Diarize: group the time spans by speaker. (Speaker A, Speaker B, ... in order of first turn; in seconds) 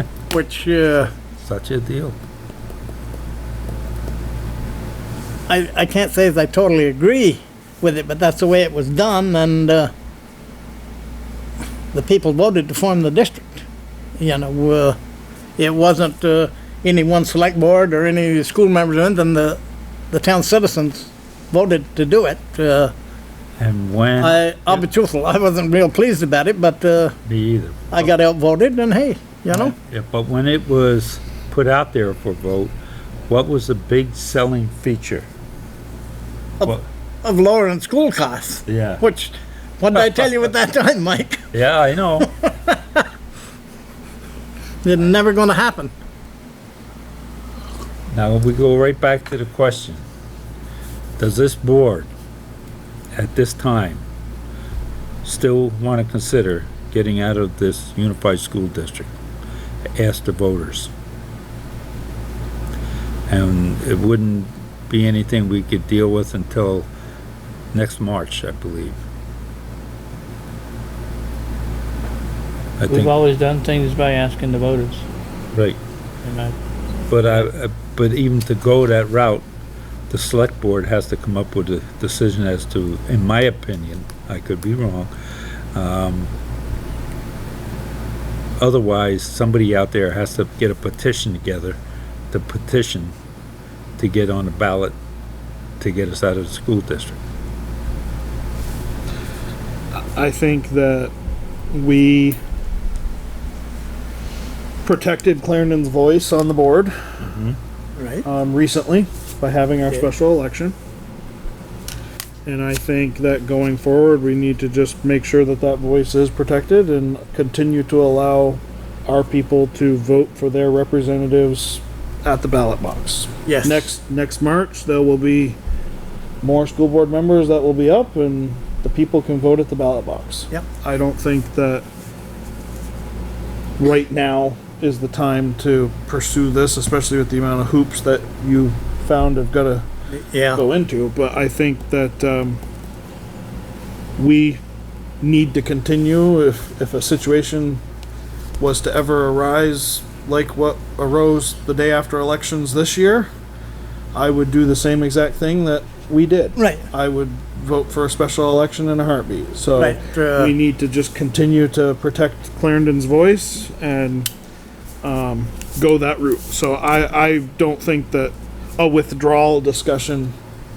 Speaker A: 0.3-1.1, 5.5-9.9, 11.9-13.7, 14.2-15.0, 15.6-19.6, 20.1-22.9, 24.2-27.1, 27.9-29.8, 36.6-41.5, 42.2-43.0, 44.8-45.9, 108.0-108.3, 123.5-123.9, 140.1-140.6, 156.6-156.9, 159.8-160.6
Speaker B: 1.4-2.2, 23.6-24.8, 27.3-28.1, 29.5-32.7, 33.3-35.3, 38.7-39.0, 40.0-40.2, 41.5-42.3, 48.1-50.0, 51.2-52.1, 53.1-54.0, 55.2-59.1, 60.0-60.9, 63.3-66.9, 67.7-69.0, 72.8-73.1, 75.5-75.8, 77.1-79.5, 80.1-85.1, 85.7-86.3, 88.6-91.8, 92.3-93.1, 94.0-95.0, 95.8-97.2, 107.2-107.6
Speaker C: 72.9-75.1, 76.2-76.6
Speaker D: 99.9-101.1, 101.7-102.4, 104.8-106.9, 108.2-110.8, 112.5-125.6, 126.4-131.9, 133.8-139.9, 140.5-142.6, 144.2-144.6, 145.2-147.8, 148.6-153.3, 154.1-164.3, 165.0-170.3